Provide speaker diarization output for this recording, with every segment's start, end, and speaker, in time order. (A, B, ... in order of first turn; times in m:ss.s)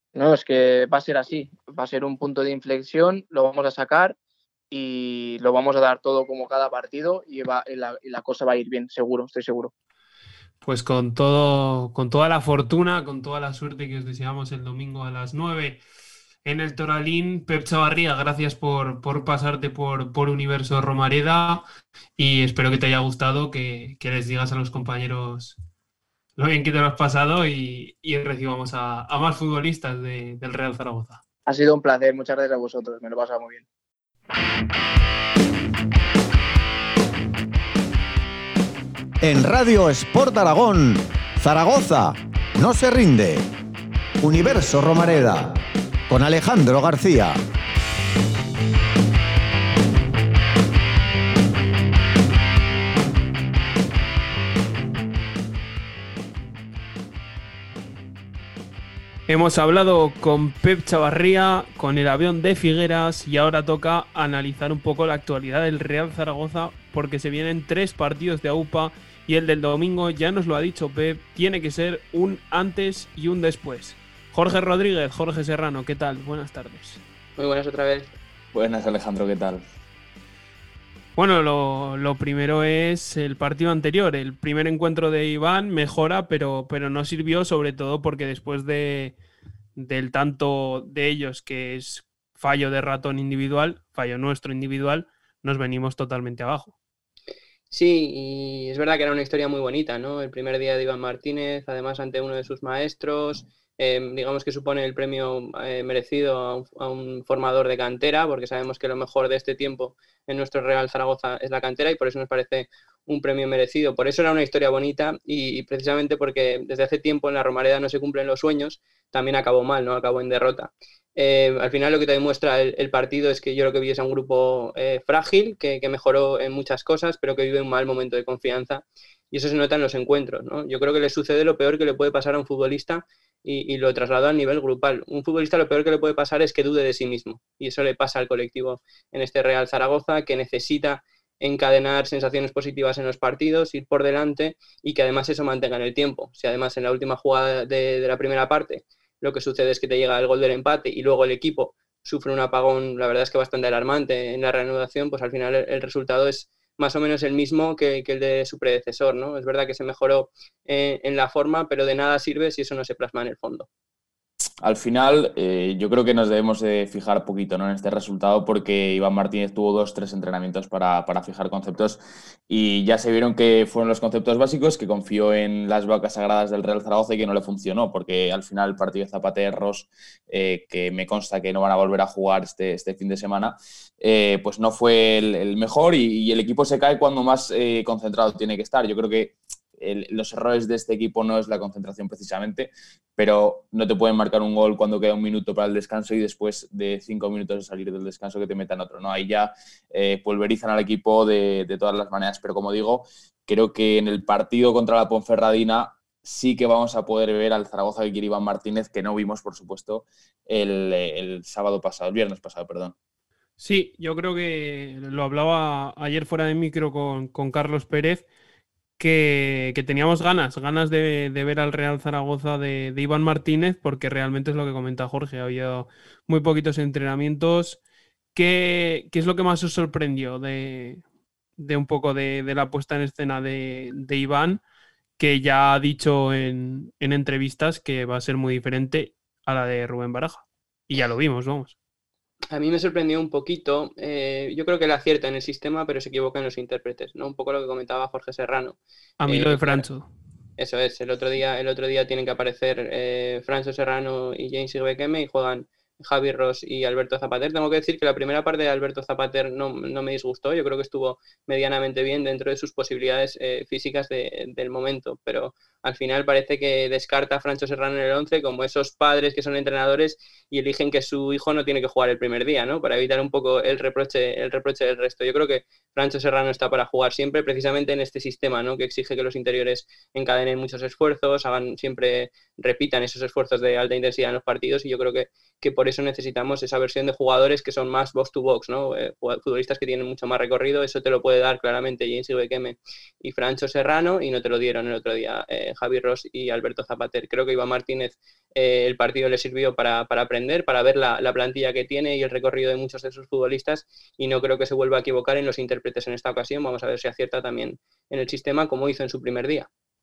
0:00.2-0:04.2 A
0:04.7-0:09.7 A
0:10.6-0:15.8 B
0:16.4-0:21.6 B
0:22.2-0:25.6 B
0:26.4-0:31.2 B
0:31.5-0:33.6 A
0:39.2-0:43.4 C
0:44.2-0:47.4 C
0:59.3-1:17.0 B
1:17.4-1:18.1 D
1:18.5-1:19.6 E
1:21.2-1:29.2 B
1:29.8-1:36.7 B
1:37.7-2:43.7 D
2:44.6-3:33.0 E
3:33.6-3:38.2 B
3:39.0-3:47.8 B
3:48.4-3:51.0 B
3:51.6-3:54.6 B
3:55.2-4:01.8 B
4:02.5-4:09.8 D
4:09.2-4:10.1 B
4:10.6-5:09.7 D